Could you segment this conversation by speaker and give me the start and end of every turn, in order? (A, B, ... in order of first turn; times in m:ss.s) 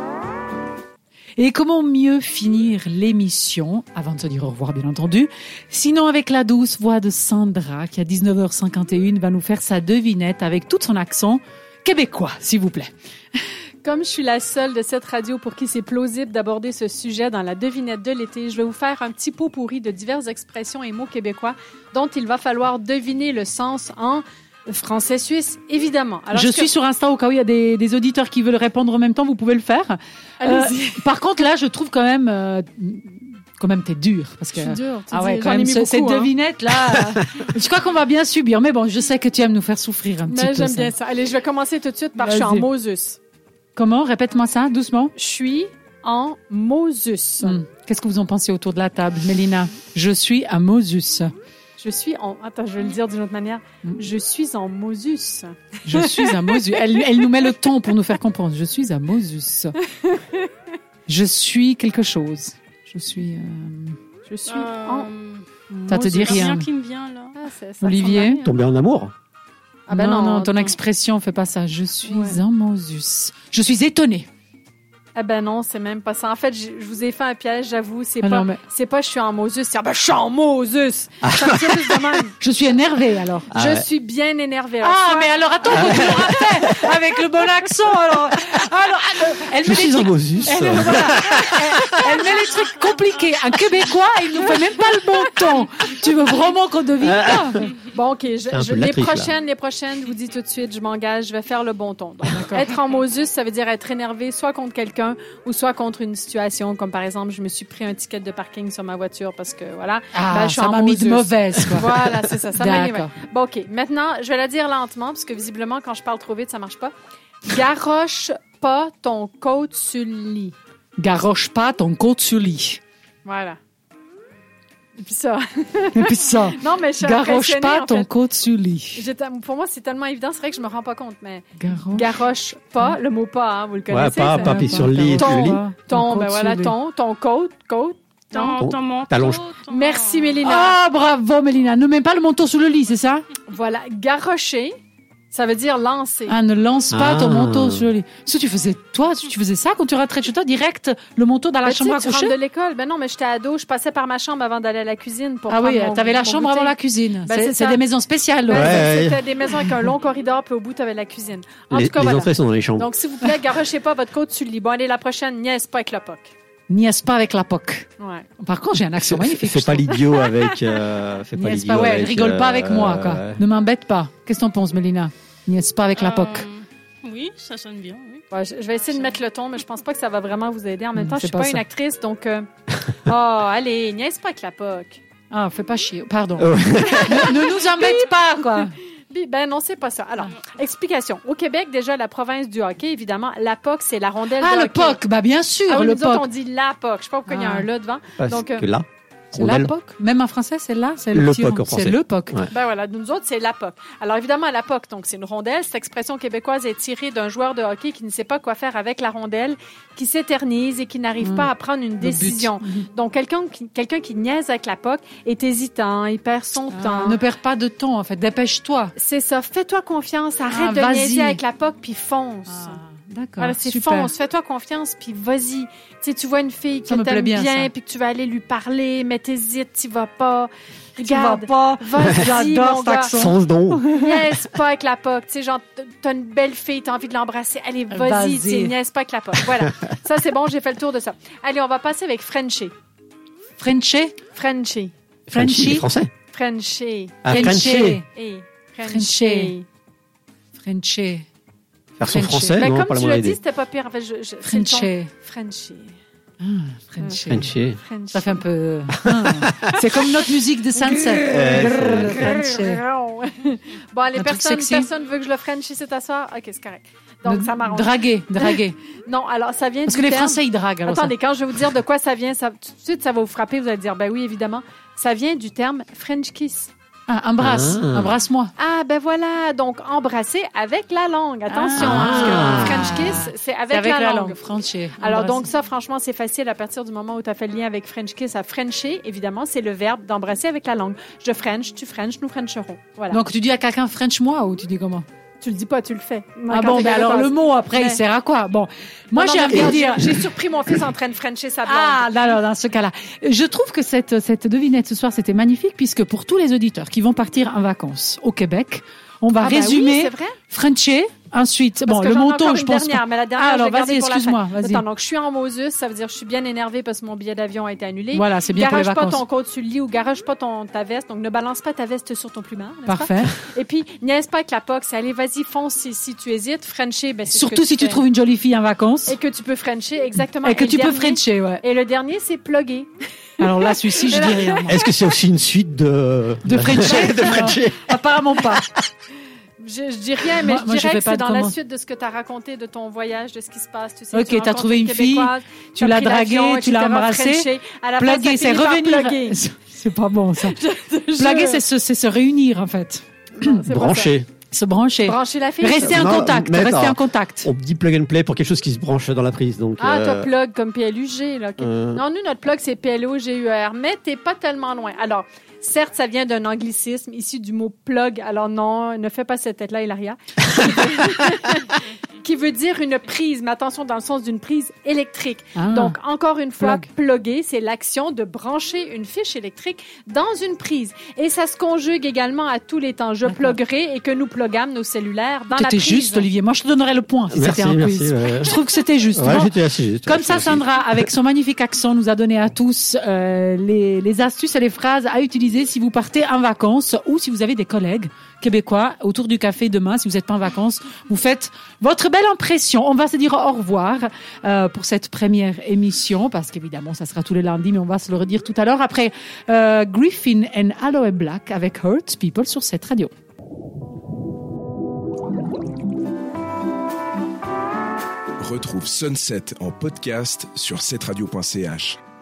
0:01.4-0:12.9 A
0:13.8-0:26.7 B
0:26.3-0:40.9 A
0:30.4-0:31.1 B
0:34.5-0:36.3 B
0:40.3-0:43.2 B
0:42.2-0:42.7 A
0:43.8-0:45.1 A
0:45.2-0:47.6 B
0:47.4-0:51.3 A
0:51.8-0:56.6 B
0:55.8-0:59.8 A
1:00.0-1:00.5 B
1:01.1-1:04.0 A
1:04.3-1:05.1 B
1:04.5-1:07.4 C
1:05.7-1:06.3 B
1:05.9-1:06.7 A
1:07.4-1:08.6 B
1:07.8-1:08.4 A
1:08.4-1:09.1 D
1:09.9-1:10.7 B
1:09.9-1:14.3 A
1:12.1-1:12.4 B
1:15.2-1:22.3 B
1:18.2-1:18.6 A
1:21.2-1:22.1 D
1:22.4-1:23.5 A
1:23.5-1:23.9 D
1:23.5-1:26.4 B
1:24.8-1:37.7 A
1:25.7-1:26.5 D
1:29.6-1:31.9 D
1:37.0-1:37.5 D
1:37.8-1:56.9 B
1:38.5-1:39.3 D
1:42.3-1:42.7 A
1:50.1-1:52.0 A
1:52.6-1:53.1 A
1:57.4-2:00.5 B
2:01.0-2:02.8 A
2:03.2-2:03.6 B
2:05.0-2:08.1 B
2:05.9-2:09.0 A
2:09.0-2:18.6 B
2:11.6-2:12.2 A
2:13.9-2:15.6 D
2:14.3-2:16.8 A
2:18.3-2:20.4 C
2:18.6-2:19.4 D
2:19.7-2:20.8 B
2:20.4-2:23.2 A
2:23.5-2:24.8 B
2:25.3-2:26.4 B
2:26.3-2:32.4 A
2:26.9-2:27.9 D
2:31.6-2:36.8 B
2:35.5-2:38.8 A
2:37.3-2:37.8 B
2:38.5-2:46.3 B
2:38.5-2:39.2 D
2:41.7-2:42.9 D
2:46.7-2:47.9 A
2:48.0-2:48.3 B
2:48.4-2:49.9 A
2:49.0-2:53.4 D
2:49.9-2:50.6 B
2:51.4-2:56.5 A
2:56.0-2:58.2 C
2:58.3-3:02.5 B
3:01.0-3:01.6 A
3:03.0-3:05.0 B
3:05.3-3:08.7 A
3:06.4-3:07.4 D
3:07.0-3:15.0 B
3:14.4-3:16.3 A
3:15.7-3:18.6 B
3:17.3-3:17.7 A
3:18.2-3:19.7 D
3:19.3-3:22.4 A
3:21.1-3:22.5 D
3:22.5-3:37.2 B
3:31.2-3:31.5 A
3:32.0-3:32.9 A
3:36.7-3:38.9 A
3:39.0-3:42.8 B
3:40.5-3:41.4 A
3:42.5-3:44.1 A
3:43.4-3:53.2 B
3:46.8-3:47.7 A
3:51.0-3:53.4 A
3:53.1-3:53.9 D
3:53.9-4:02.7 B
3:57.9-3:58.7 A
4:03.6-4:04.2 A
4:04.3-4:04.9 B
4:05.3-4:06.1 D
4:05.3-4:05.9 A
4:06.3-4:09.7 B
4:07.2-4:08.0 D
4:07.3-4:08.0 A
4:08.8-4:09.5 A
4:10.6-4:11.3 A
4:12.0-4:13.4 D
4:12.0-4:12.7 A
4:12.6-4:15.9 B
4:14.4-4:15.1 A
4:16.4-4:17.6 A
4:17.3-4:17.8 D
4:17.8-4:18.4 B
4:18.1-4:22.8 A
4:20.9-4:36.7 B
4:21.2-4:22.3 D
4:24.2-4:24.9 A
4:27.2-4:28.8 A
4:29.9-4:31.1 A
4:37.1-4:38.5 A
4:37.4-4:38.2 D
4:38.6-4:44.4 B
4:41.5-4:45.5 A
4:41.8-4:42.9 D
4:45.0-4:53.2 B
4:53.1-4:55.1 A
4:55.4-4:58.0 B
4:56.5-5:00.2 A
4:59.1-5:02.1 B
4:59.5-4:59.8 D
5:01.6-5:14.8 A
5:09.4-5:10.4 B
5:11.9-5:28.0 B
5:18.1-5:19.2 A
5:22.9-5:23.4 A
5:27.3-5:29.2 A
5:29.1-5:32.9 B
5:30.4-5:31.6 A
5:33.4-5:34.8 A
5:34.0-5:34.7 B
5:34.7-5:38.6 D
5:36.4-5:38.7 A
5:39.6-5:49.4 B
5:40.4-5:41.6 A
5:44.1-5:50.6 A
5:50.4-5:51.6 B
5:51.2-5:53.6 A
5:53.4-5:54.1 B
5:53.7-5:54.3 D
5:54.5-5:57.5 A
5:55.0-5:56.0 B
5:55.7-6:00.3 D
5:59.8-6:26.3 B
6:01.6-6:02.0 D
6:15.6-6:16.0 A
6:16.6-6:16.9 A
6:23.3-6:23.6 A
6:25.5-6:53.1 A
6:27.3-6:28.6 D
6:29.2-6:30.7 D
6:58.4-7:02.0 E